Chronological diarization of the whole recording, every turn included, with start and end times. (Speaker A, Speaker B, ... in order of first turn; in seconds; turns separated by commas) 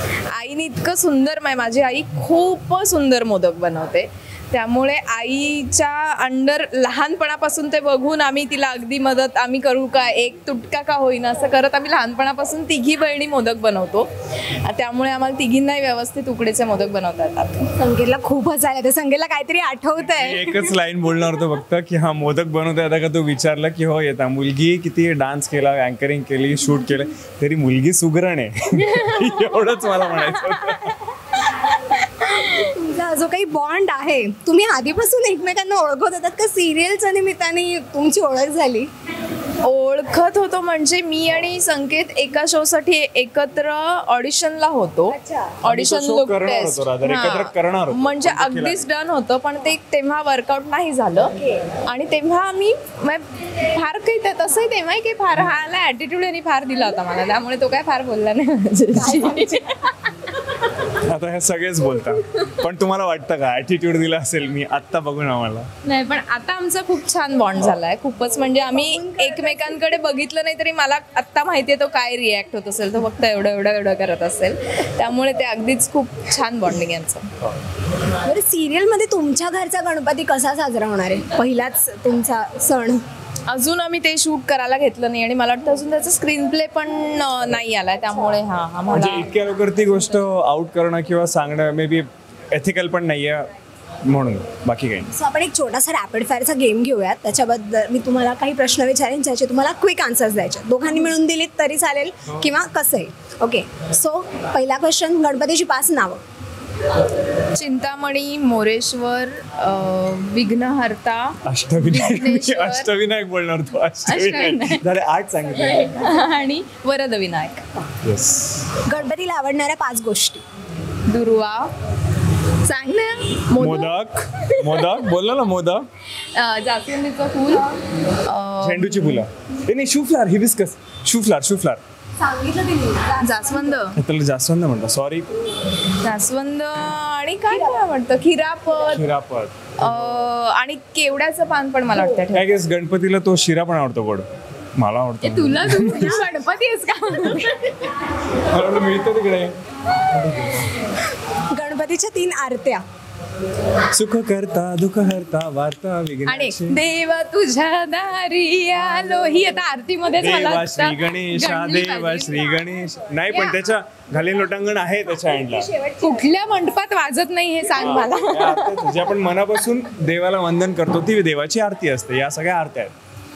Speaker A: 0.3-17.7, Speaker B: 17.8-20.8, Speaker C: 20.1-31.0, Speaker A: 28.7-31.1, Speaker A: 31.6-32.7, Speaker B: 32.4-38.9, Speaker A: 39.6-51.4, Speaker B: 45.1-45.6, Speaker C: 45.6-48.9, Speaker B: 51.4-51.6, Speaker A: 51.9-60.1, Speaker B: 58.9-59.7, Speaker C: 60.9-65.7, Speaker A: 65.8-77.2, Speaker B: 68.7-70.0, Speaker B: 78.2-83.0, Speaker A: 83.5-89.4, Speaker C: 88.9-93.5, Speaker C: 94.0-95.1, Speaker B: 95.1-106.2, Speaker A: 107.5-112.9, Speaker C: 111.4-116.0, Speaker A: 114.1-114.8, Speaker A: 115.8-117.6, Speaker C: 118.0-118.8, Speaker B: 118.9-120.4, Speaker A: 121.1-121.7, Speaker A: 122.6-125.0, Speaker C: 123.5-125.9, Speaker A: 126.2-127.7, Speaker A: 128.2-129.2, Speaker C: 128.6-131.8, Speaker B: 132.2-133.8, Speaker A: 133.2-134.0, Speaker C: 133.9-135.3, Speaker A: 136.0-139.1, Speaker C: 138.9-140.3, Speaker A: 139.8-142.5, Speaker C: 142.3-146.2, Speaker A: 145.2-147.9, Speaker C: 148.3-150.7, Speaker B: 151.3-152.8, Speaker C: 153.9-156.8, Speaker A: 156.3-162.6, Speaker C: 160.2-165.7, Speaker A: 163.3-163.6, Speaker B: 165.1-166.3, Speaker A: 166.0-168.9, Speaker C: 167.7-172.9